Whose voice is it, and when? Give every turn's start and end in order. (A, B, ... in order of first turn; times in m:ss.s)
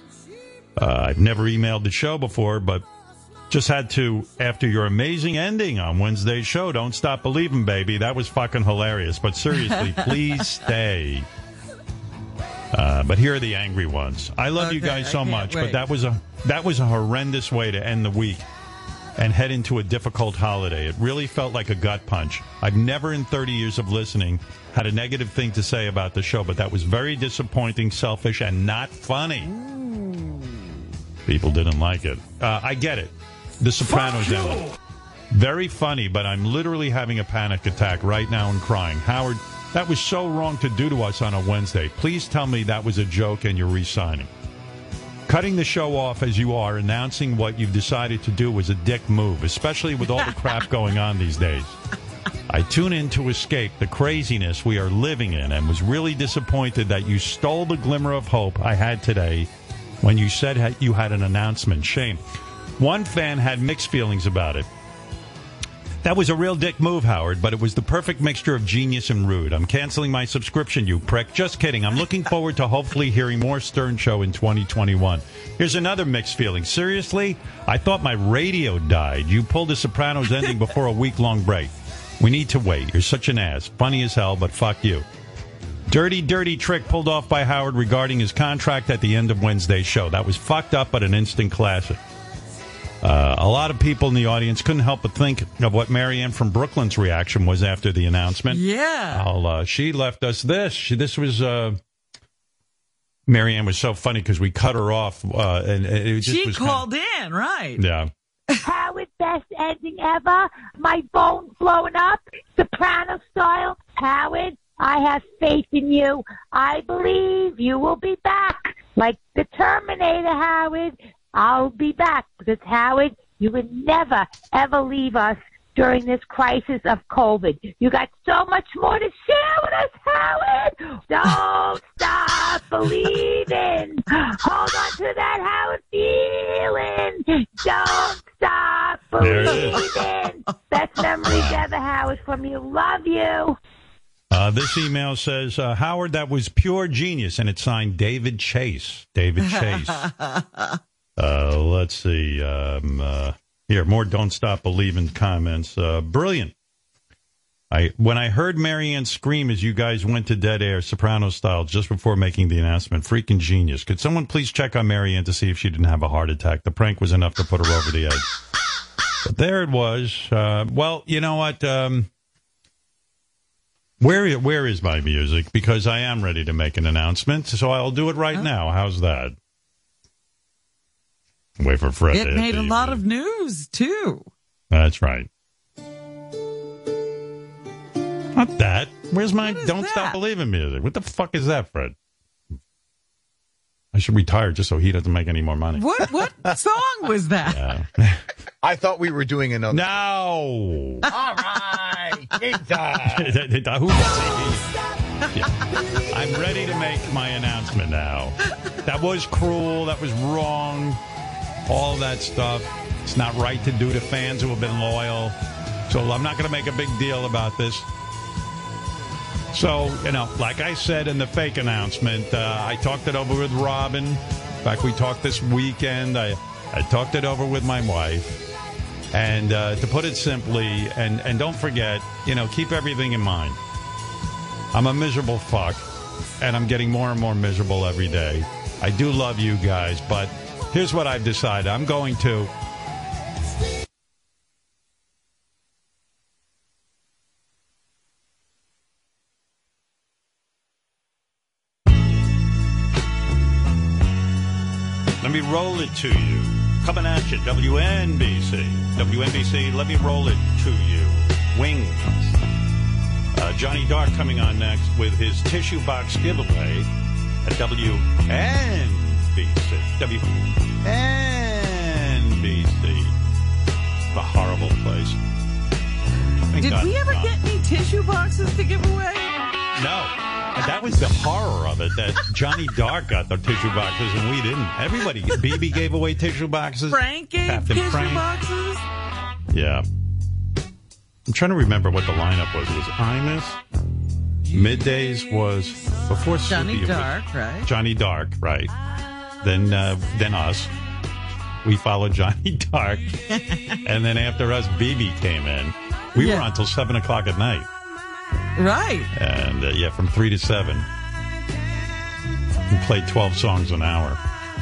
0:00.8-0:02.8 A
0:03.5-0:11.3 A
0:09.7-0:10.1 B
0:12.7-0:18.5 A
0:14.6-0:15.8 B
0:19.2-0:29.5 A
0:29.4-0:30.7 B
0:31.3-0:34.7 A
0:35.3-0:44.3 A
0:45.3-0:51.8 A
0:52.5-0:59.5 A
1:00.0-1:02.2 A
1:02.8-1:04.7 A
1:06.0-1:25.1 A
1:25.9-1:32.0 A
1:33.0-1:41.8 A
1:38.5-1:39.3 B
1:43.3-1:46.8 A
1:46.2-1:47.8 B
1:47.8-1:48.1 A
1:48.6-2:23.6 C
2:19.2-2:19.9 A
2:21.3-2:21.7 A
2:24.3-2:30.1 A
2:29.4-2:30.8 B
2:31.2-2:36.5 A
2:37.7-2:48.3 A
2:49.2-2:52.1 A
2:54.0-2:59.4 A
3:01.6-3:03.0 A
3:02.1-3:04.3 B
3:04.7-3:05.3 A
3:08.3-3:12.0 A
3:09.4-3:10.2 B
3:13.9-3:15.9 A
3:15.8-3:17.7 B
3:17.5-3:18.2 A
3:18.6-3:19.8 D
3:19.7-3:21.1 A
3:21.1-3:23.4 D
3:23.1-3:24.7 A
3:25.3-3:31.0 A
3:31.7-3:35.4 A
3:35.9-3:37.9 A
3:39.5-3:48.4 A
3:49.1-3:53.6 A
3:54.7-3:55.8 A
3:56.4-4:02.5 A
4:15.2-4:22.4 A
4:23.4-4:26.9 A
4:27.4-4:33.2 A
4:34.1-4:35.2 A
4:36.5-4:37.3 A
4:36.6-4:39.3 B
4:39.8-4:48.3 A
4:46.9-4:48.8 B
4:49.5-4:49.8 A
4:51.3-4:53.6 A
4:54.5-4:58.7 A
4:56.5-4:57.7 B
4:59.4-5:00.7 A
5:01.6-5:03.1 A
5:03.3-5:03.8 B
5:03.8-5:07.7 A
5:06.2-5:06.5 B
5:08.6-5:09.1 B
5:09.1-5:10.9 A
5:12.7-5:14.2 A